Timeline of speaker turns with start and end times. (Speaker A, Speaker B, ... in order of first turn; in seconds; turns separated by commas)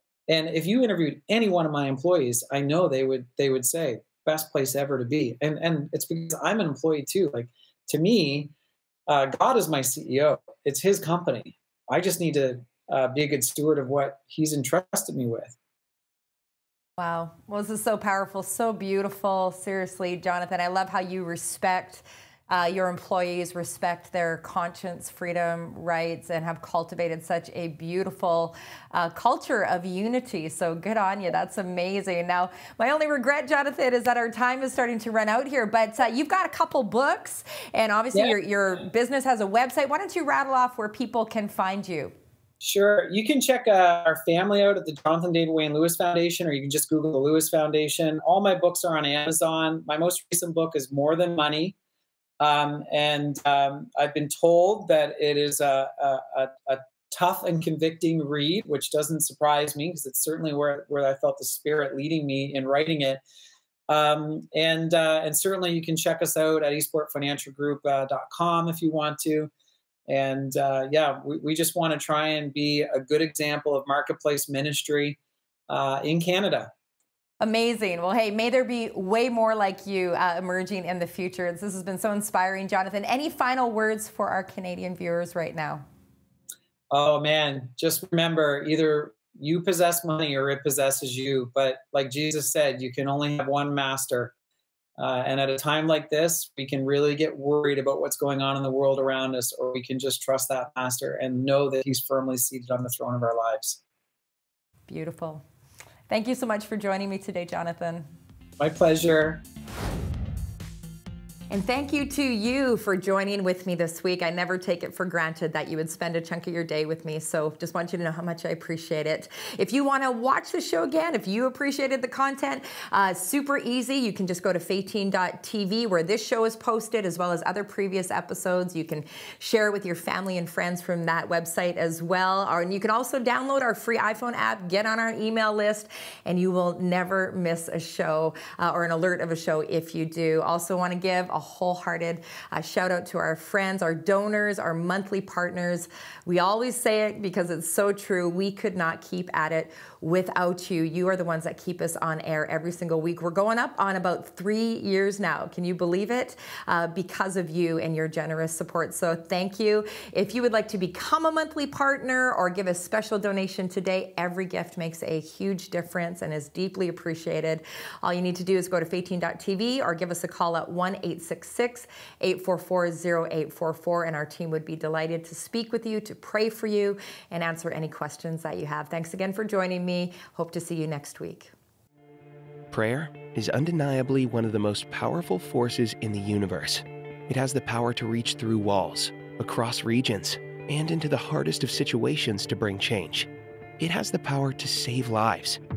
Speaker A: 0.3-8.5, Speaker A: 9.1-15.6, Speaker B: 17.0-42.1, Speaker A: 42.6-51.8, Speaker A: 52.4-63.2, Speaker A: 63.9-69.5, Speaker A: 70.1-75.2, Speaker A: 75.7-76.7, Speaker B: 77.4-85.8, Speaker A: 86.9-94.3, Speaker A: 95.0-103.8, Speaker B: 104.9-105.4, Speaker B: 106.1-108.1, Speaker A: 108.6-109.4, Speaker B: 111.5-181.5, Speaker C: 182.7-195.6